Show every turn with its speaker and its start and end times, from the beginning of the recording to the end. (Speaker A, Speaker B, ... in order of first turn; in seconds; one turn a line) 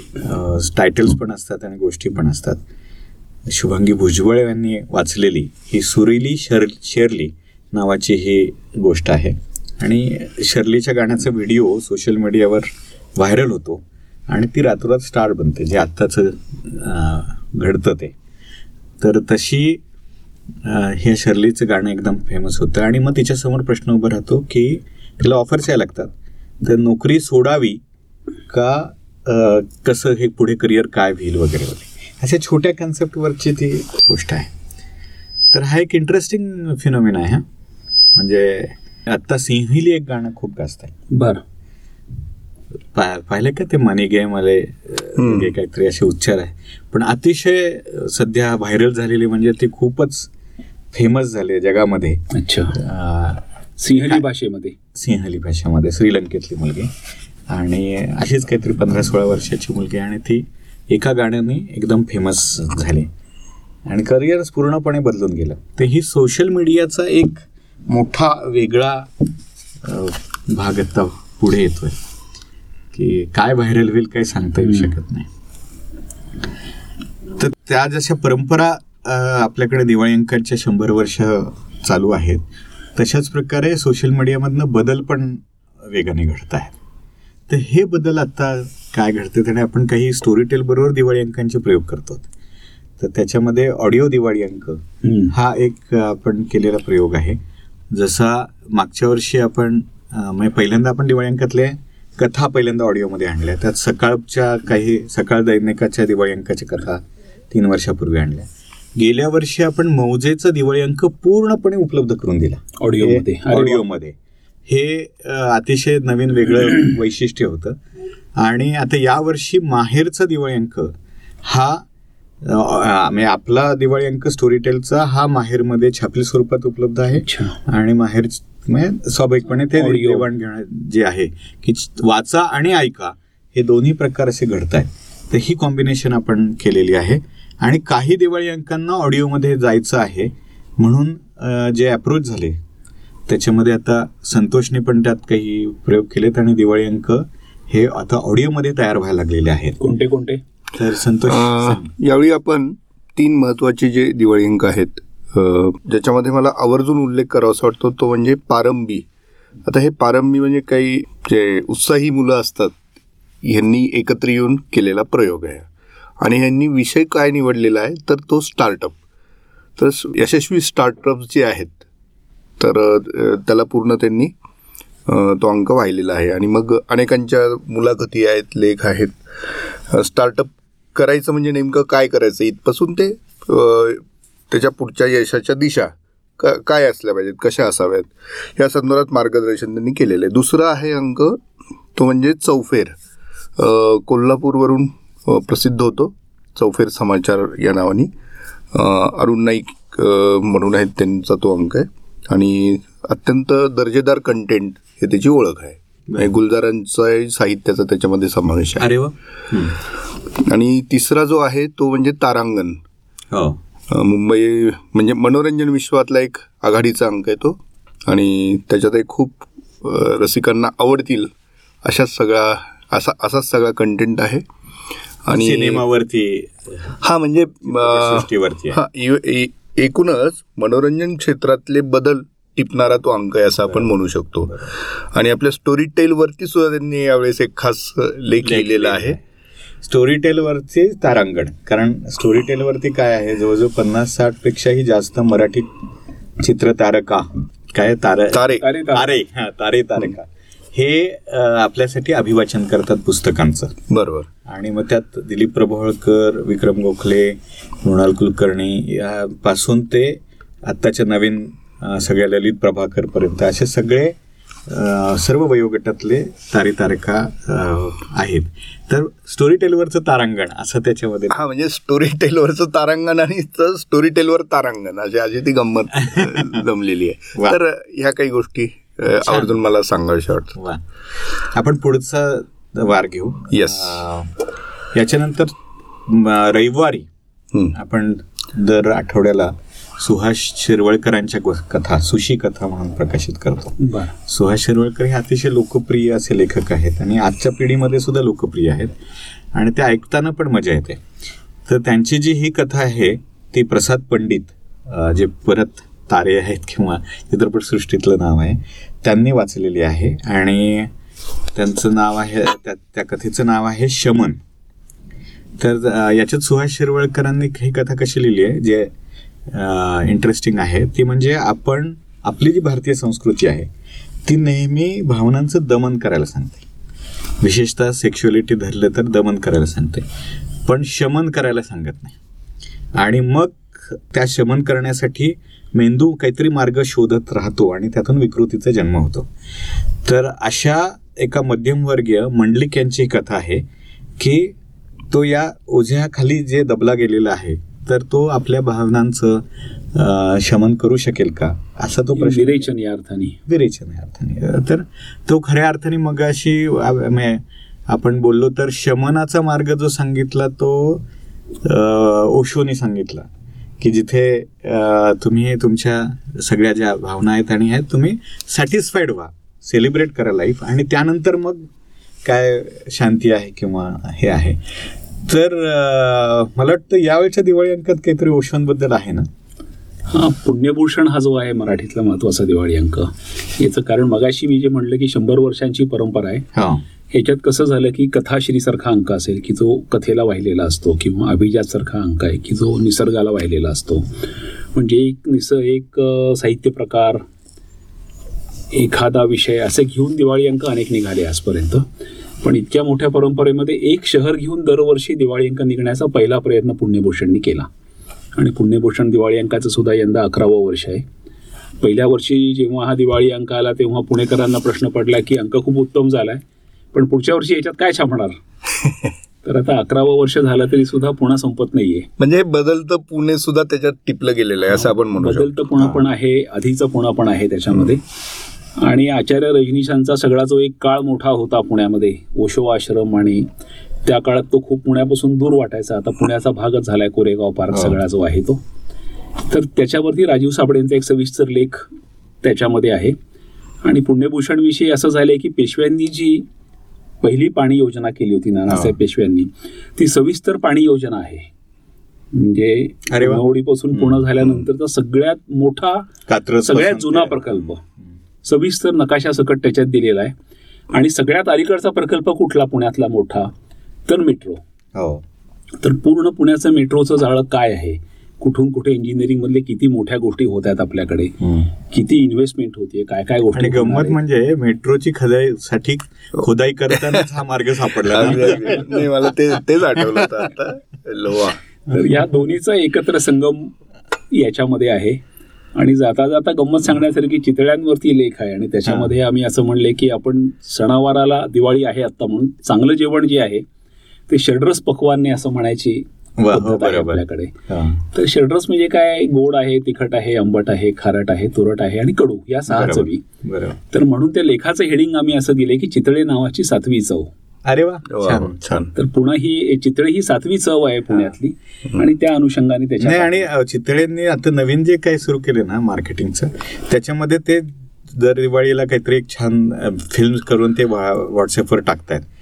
Speaker A: 0.1-2.6
Speaker A: 3.5-18.1
Speaker A: 19.0-19.8
Speaker A: 20.6-27.8
Speaker A: 28.5-34.5
Speaker A: 35.5-37.5
Speaker A: 38.1-40.9
Speaker B: 41.1-41.4
Speaker A: 42.9-50.3
Speaker C: 45.2-45.5
Speaker A: 50.9-54.2
Speaker B: 52.3-52.8
Speaker B: 53.8-54.8
Speaker A: 54.9-56.9
Speaker A: 57.5-63.1
Speaker A: 63.9-69.1
Speaker A: 69.8-72.0
Speaker A: 72.9-75.3
Speaker B: 74.6-74.9
Speaker A: 77.3-86.8
Speaker A: 87.5-92.3
Speaker A: 93.0-97.4
Speaker B: 95.0-95.3
Speaker A: 97.9-117.8
Speaker B: 112.8-113.8
Speaker A: 118.4-121.8
Speaker A: 122.4-142.6
Speaker B: 127.2-127.6
Speaker B: 129.6-130.3
Speaker A: 143.3-149.8
Speaker B: 149.8-150.4
Speaker A: 150.7-151.9
Speaker C: 151.2-159.0
Speaker C: 159.6-162.8
Speaker C: 163.4-165.7
Speaker C: 166.2-169.0
Speaker C: 169.8-171.8
Speaker C: 172.6-174.3
Speaker C: 175.1-191.4
Speaker C: 191.9-192.9
Speaker C: 193.6-198.1
Speaker C: 198.7-208.9
Speaker A: 206.1-206.3
Speaker A: 208.8-209.8
Speaker C: 210.4-212.8
Speaker A: 213.3-213.6
Speaker C: 213.9-221.3
Speaker C: 221.8-224.4
Speaker C: 225.2-225.8
Speaker A: 225.3-227.0
Speaker C: 227.0-239.2
Speaker A: 227.6-228.8
Speaker A: 233.7-234.7
Speaker A: 238.4-239.2
Speaker A: 239.8-245.7
Speaker A: 246.4-253.8
Speaker C: 248.3-248.6
Speaker B: 248.5-249.1
Speaker C: 253.9-254.3
Speaker A: 254.4-271.4
Speaker C: 271.3-280.6
Speaker A: 276.0-276.6
Speaker A: 279.2-279.6
Speaker A: 280.5-280.8
Speaker A: 281.4-284.3
Speaker C: 283.5-284.0
Speaker A: 284.9-285.5
Speaker A: 286.0-287.1
Speaker A: 287.7-298.9
Speaker B: 293.8-294.1
Speaker A: 299.5-301.0
Speaker A: 301.6-310.9
Speaker A: 311.5-314.4
Speaker A: 315.6-318.9
Speaker A: 319.5-323.7
Speaker A: 324.2-326.6
Speaker A: 327.4-330.1
Speaker A: 330.6-332.2
Speaker A: 332.9-339.3
Speaker A: 340.0-344.6
Speaker A: 345.1-352.7
Speaker B: 352.1-353.4
Speaker A: 353.5-361.0
Speaker A: 361.6-371.7
Speaker A: 372.2-379.3
Speaker B: 380.1-386.5
Speaker A: 386.5-386.8
Speaker B: 387.1-397.2
Speaker B: 398.7-401.9
Speaker B: 402.4-407.7
Speaker B: 408.4-411.0
Speaker B: 411.8-416.4
Speaker B: 416.9-418.4
Speaker B: 419.4-422.1
Speaker C: 422.2-425.5
Speaker B: 424.7-428.0
Speaker A: 425.8-426.0
Speaker B: 428.8-433.4
Speaker B: 434.0-438.6
Speaker A: 437.7-438.0
Speaker B: 439.4-441.9
Speaker B: 442.4-443.1
Speaker B: 443.8-446.4
Speaker B: 447.2-451.5
Speaker A: 448.7-448.9
Speaker B: 452.3-456.1
Speaker A: 453.1-453.4
Speaker A: 453.9-454.2
Speaker A: 456.3-458.1
Speaker B: 456.6-457.8
Speaker B: 458.4-460.3
Speaker B: 460.9-463.5
Speaker B: 464.1-464.6
Speaker A: 464.9-465.2
Speaker B: 465.8-474.2
Speaker A: 471.4-471.7
Speaker A: 473.5-479.1
Speaker C: 478.0-481.6
Speaker A: 480.2-480.5
Speaker B: 481.9-483.7
Speaker B: 484.3-485.2
Speaker B: 485.7-493.6
Speaker A: 488.9-489.1
Speaker B: 494.3-497.5
Speaker A: 496.4-498.0
Speaker B: 498.1-503.2
Speaker A: 502.7-503.8
Speaker B: 503.9-507.3
Speaker A: 507.6-508.9
Speaker C: 508.1-508.9
Speaker B: 508.9-513.5
Speaker A: 513.0-522.3